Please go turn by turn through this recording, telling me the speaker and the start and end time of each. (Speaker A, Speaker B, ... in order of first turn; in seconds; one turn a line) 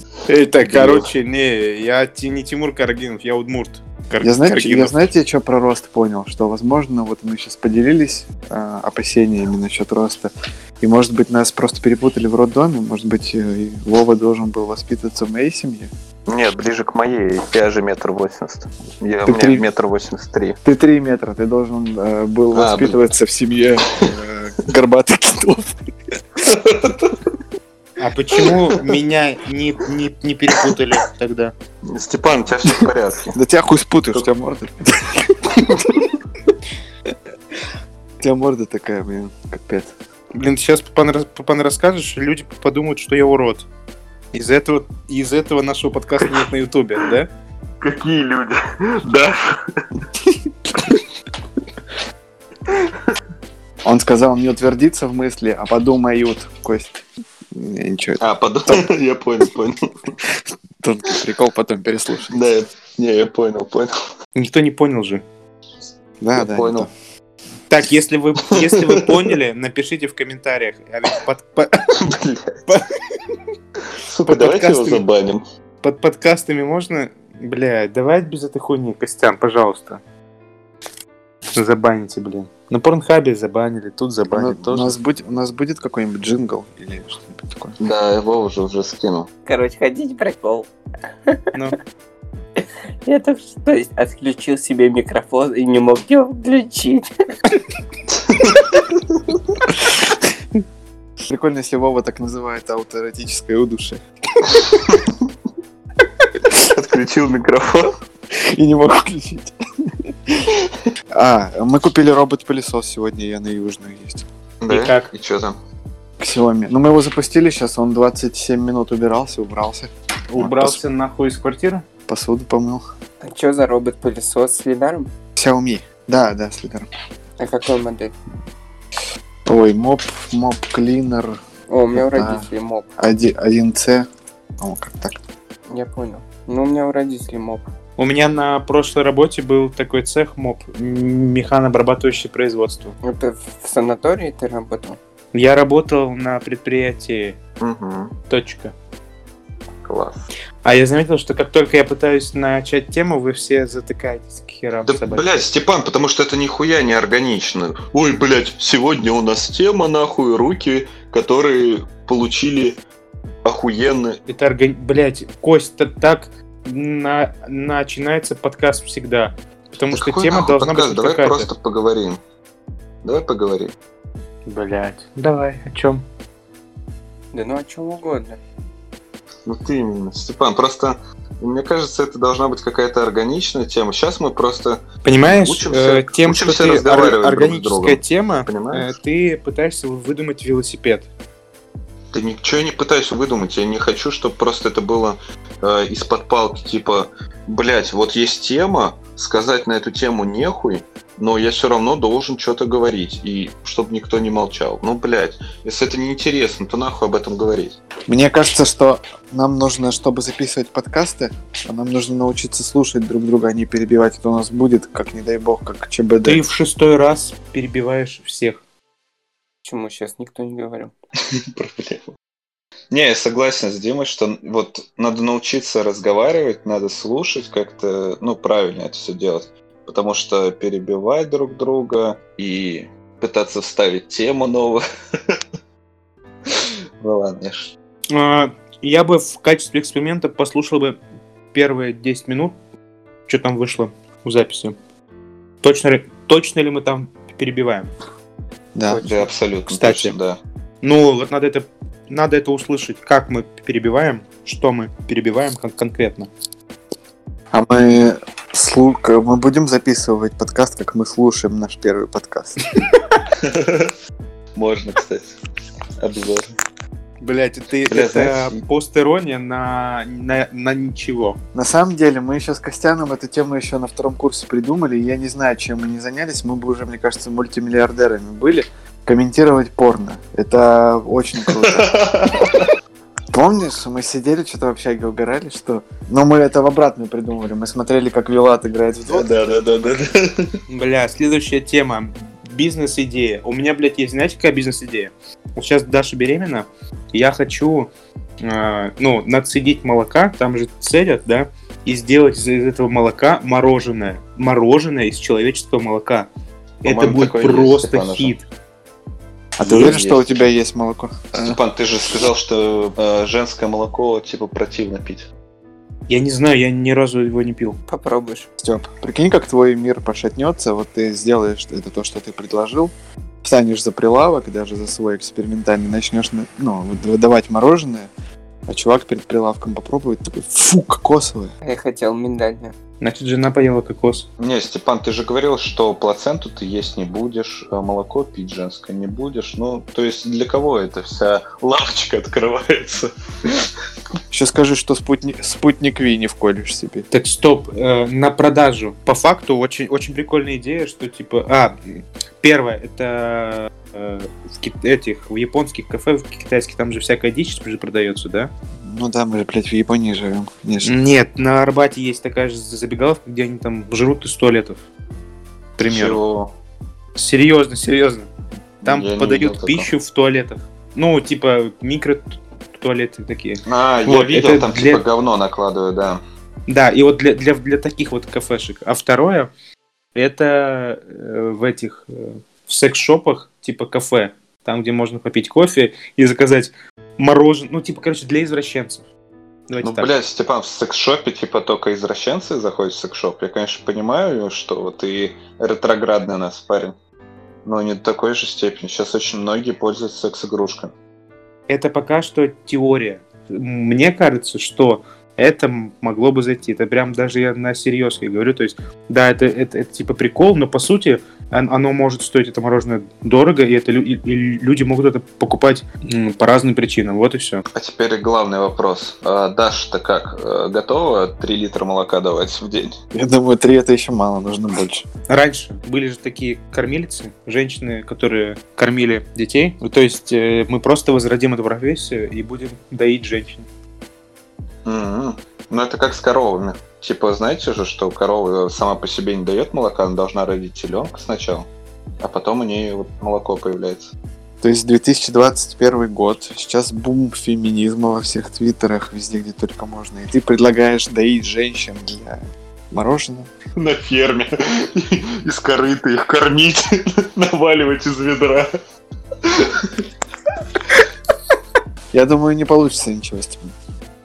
Speaker A: 0.3-5.0
Speaker B: 0.6-1.1
Speaker C: 4.2-15.9
Speaker B: 16.3-20.6
Speaker C: 19.2-19.6
Speaker C: 20.6-25.8
Speaker B: 22.5-23.0
Speaker B: 26.5-27.1
Speaker A: 28.0-31.5
Speaker B: 31.9-33.3
Speaker C: 33.3-36.1
Speaker C: 38.2-39.9
Speaker A: 40.3-43.6
Speaker A: 44.3-47.3
Speaker B: 47.8-49.5
Speaker C: 53.8-57.0
Speaker C: 57.5-58.9
Speaker B: 58.2-59.8
Speaker C: 60.8-62.4
Speaker B: 62.3-63.9
Speaker A: 64.3-65.2
Speaker C: 66.2-66.9
Speaker B: 66.3-66.9
Speaker A: 67.7-71.7
Speaker B: 68.5-69.0
Speaker B: 72.0-72.7
Speaker B: 74.0-75.4
Speaker A: 74.3-75.0
Speaker A: 75.8-80.0
Speaker A: 81.5-85.0
Speaker C: 84.3-87.8
Speaker B: 87.8-89.3
Speaker D: 89.5-90.7
Speaker D: 92.6-97.0
Speaker B: 98.3-98.8
Speaker C: 101.3-104.0
Speaker B: 106.6-107.9
Speaker C: 108.4-109.5
Speaker C: 111.1-114.2
Speaker B: 114.6-115.6
Speaker A: 114.7-115.1
Speaker C: 116.2-120.8
Speaker A: 120.3-121.8
Speaker C: 122.1-122.8
Speaker D: 123.2-125.1
Speaker C: 125.3-126.9
Speaker D: 127.4-128.1
Speaker C: 129.4-131.4
Speaker D: 131.7-132.9
Speaker C: 131.9-132.5
Speaker C: 133.0-134.1
Speaker C: 134.6-135.2
Speaker D: 135.7-137.6
Speaker A: 138.0-142.9
Speaker D: 143.0-145.0
Speaker A: 145.3-147.4
Speaker B: 147.6-148.1
Speaker A: 148.3-148.7
Speaker B: 149.8-150.3
Speaker A: 150.6-155.3
Speaker B: 154.9-162.8
Speaker B: 163.4-164.2
Speaker A: 164.3-171.5
Speaker B: 169.9-172.2
Speaker B: 173.0-173.7
Speaker A: 174.4-176.0
Speaker D: 177.3-178.4
Speaker B: 179.5-188.9
Speaker A: 185.0-191.1
Speaker B: 192.1-207.8
Speaker C: 208.1-216.4
Speaker A: 216.2-218.6
Speaker D: 219.6-220.9
Speaker B: 221.5-222.1
Speaker B: 222.9-235.4
Speaker B: 236.5-237.7
Speaker A: 238.1-240.9
Speaker A: 241.5-242.6
Speaker A: 243.2-244.7
Speaker A: 245.6-247.9
Speaker C: 248.7-249.1
Speaker A: 248.9-250.1
Speaker B: 249.0-250.4
Speaker A: 250.8-256.3
Speaker C: 257.5-262.6
Speaker B: 263.4-263.9
Speaker B: 264.6-265.3
Speaker B: 266.0-266.4
Speaker A: 267.2-271.4
Speaker B: 267.9-268.6
Speaker C: 271.5-281.9
Speaker B: 281.5-282.7
Speaker C: 283.3-289.4
Speaker B: 289.1-290.5
Speaker A: 290.7-306.3
Speaker B: 306.8-308.4
Speaker A: 306.8-308.4
Speaker C: 309.6-311.6
Speaker B: 309.6-310.3
Speaker B: 311.4-315.3
Speaker A: 316.1-317.8
Speaker D: 317.9-318.5
Speaker C: 318.6-322.9
Speaker C: 323.4-328.1
Speaker C: 328.7-331.5
Speaker D: 331.6-332.7
Speaker A: 333.0-334.3
Speaker B: 334.4-343.6
Speaker C: 344.3-347.1
Speaker A: 347.1-358.5
Speaker C: 358.8-360.9
Speaker A: 360.8-364.8
Speaker A: 365.8-366.2
Speaker B: 365.8-366.6
Speaker A: 367.1-368.3
Speaker B: 368.8-369.9
Speaker A: 368.8-375.0
Speaker B: 373.6-376.2
Speaker A: 376.7-379.5
Speaker A: 380.1-389.0
Speaker A: 389.7-390.1
Speaker B: 389.8-396.9
Speaker B: 397.6-400.9
Speaker A: 401.7-417.6
Speaker B: 417.7-422.9
Speaker C: 423.1-425.0
Speaker A: 425.3-433.7
Speaker B: 434.9-441.7
Speaker B: 442.2-444.1
Speaker C: 444.6-453.5
Speaker B: 453.7-458.7
Speaker B: 459.4-459.9
Speaker C: 462.1-463.7